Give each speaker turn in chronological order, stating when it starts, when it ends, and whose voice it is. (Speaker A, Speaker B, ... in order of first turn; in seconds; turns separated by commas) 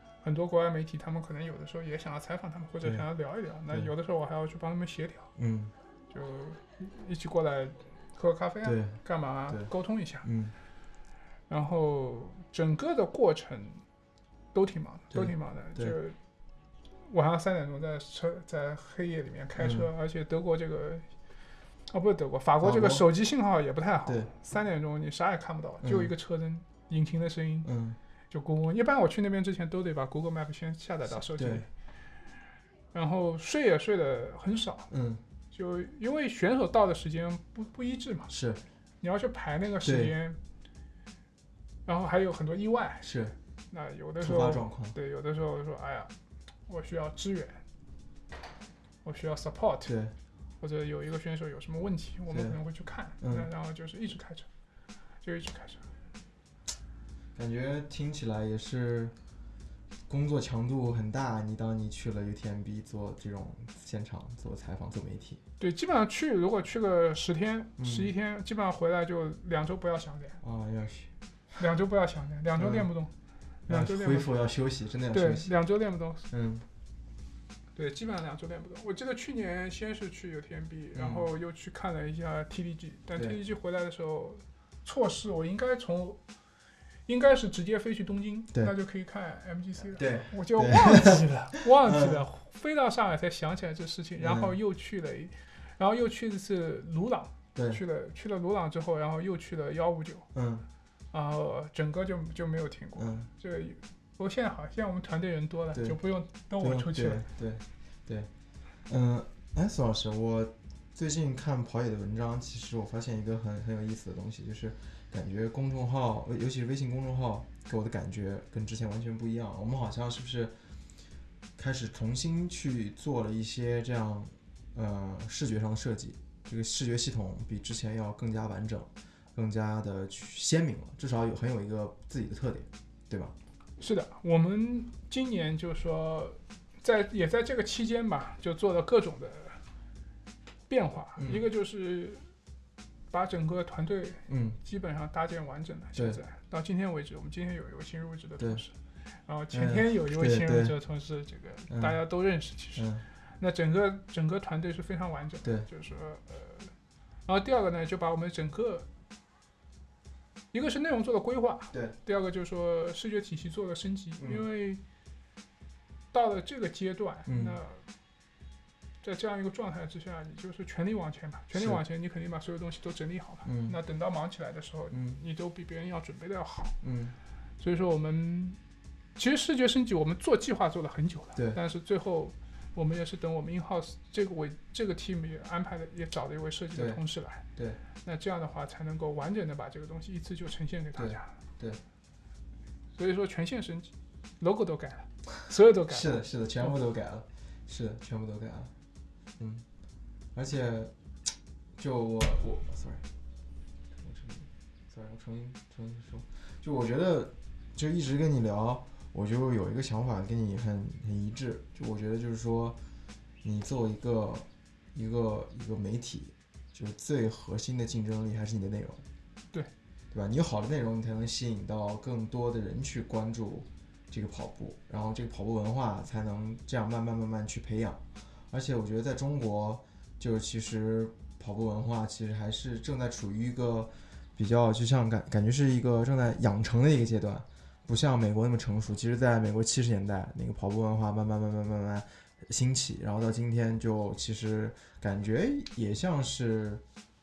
Speaker A: 0.2-5.3, Speaker B: 5.4-5.7, Speaker A: 6.1-10.3, Speaker B: 8.6-9.0, Speaker B: 10.2-10.5, Speaker A: 11.5-13.8, Speaker A: 14.5-16.1, Speaker B: 15.1-15.9, Speaker A: 17.0-21.1, Speaker B: 19.6-19.9, Speaker A: 21.9-27.7, Speaker B: 22.6-23.0, Speaker B: 25.8-26.1, Speaker B: 27.6-28.0, Speaker A: 28.3-31.7, Speaker B: 31.2-31.6, Speaker A: 32.9-34.9, Speaker B: 34.9-35.2, Speaker A: 35.5-38.3, Speaker B: 38.3-38.6, Speaker A: 39.0-40.4, Speaker B: 39.8-40.1, Speaker A: 41.9-43.1, Speaker B: 43.0-43.3, Speaker A: 43.7-46.1, Speaker B: 44.2-44.9, Speaker A: 46.7-47.6, Speaker A: 49.0-49.9, Speaker B: 49.9-50.1, Speaker A: 50.6-54.5, Speaker B: 52.3-52.5, Speaker B: 53.2-53.5, Speaker A: 55.2-55.8, Speaker B: 57.4-59.1, Speaker B: 60.1-65.4, Speaker A: 65.6-70.4, Speaker B: 67.8-68.1, Speaker B: 70.4-71.1, Speaker A: 71.5-73.1, Speaker B: 72.6-72.9, Speaker A: 73.7-74.3, Speaker B: 73.7-75.5, Speaker A: 75.1-76.3, Speaker B: 76.3-76.6, Speaker A: 77.8-86.2, Speaker B: 80.9-81.2, Speaker A: 87.1-100.3, Speaker B: 89.9-92.2, Speaker B: 94.2-94.5, Speaker B: 97.5-97.8, Speaker B: 100.3-100.7, Speaker A: 101.1-107.2, Speaker B: 103.0-103.3, Speaker B: 106.6-108.3, Speaker B: 108.9-120.5, Speaker B: 121.6-133.3, Speaker A: 133.8-139.6, Speaker A: 140.7-142.2, Speaker B: 141.2-141.4, Speaker A: 143.1-148.7, Speaker B: 144.3-144.6, Speaker A: 149.2-152.9, Speaker B: 149.5-150.7, Speaker B: 151.7-152.0, Speaker B: 152.8-153.0, Speaker A: 153.4-156.7, Speaker A: 157.2-158.8, Speaker A: 160.5-164.8, Speaker A: 166.1-167.8, Speaker B: 167.3-167.6, Speaker A: 169.0-176.8, Speaker B: 171.5-171.8, Speaker B: 173.4-173.8, Speaker B: 174.9-175.2, Speaker B: 176.8-177.2, Speaker A: 177.6-178.6, Speaker A: 179.2-187.4, Speaker B: 186.7-187.0, Speaker A: 188.0-191.3, Speaker B: 191.0-191.8, Speaker A: 192.9-196.7, Speaker B: 195.9-198.7, Speaker B: 199.4-199.6, Speaker B: 200.3-200.9, Speaker B: 201.8-203.0, Speaker B: 204.0-212.8, Speaker B: 213.4-219.0, Speaker B: 220.1-246.8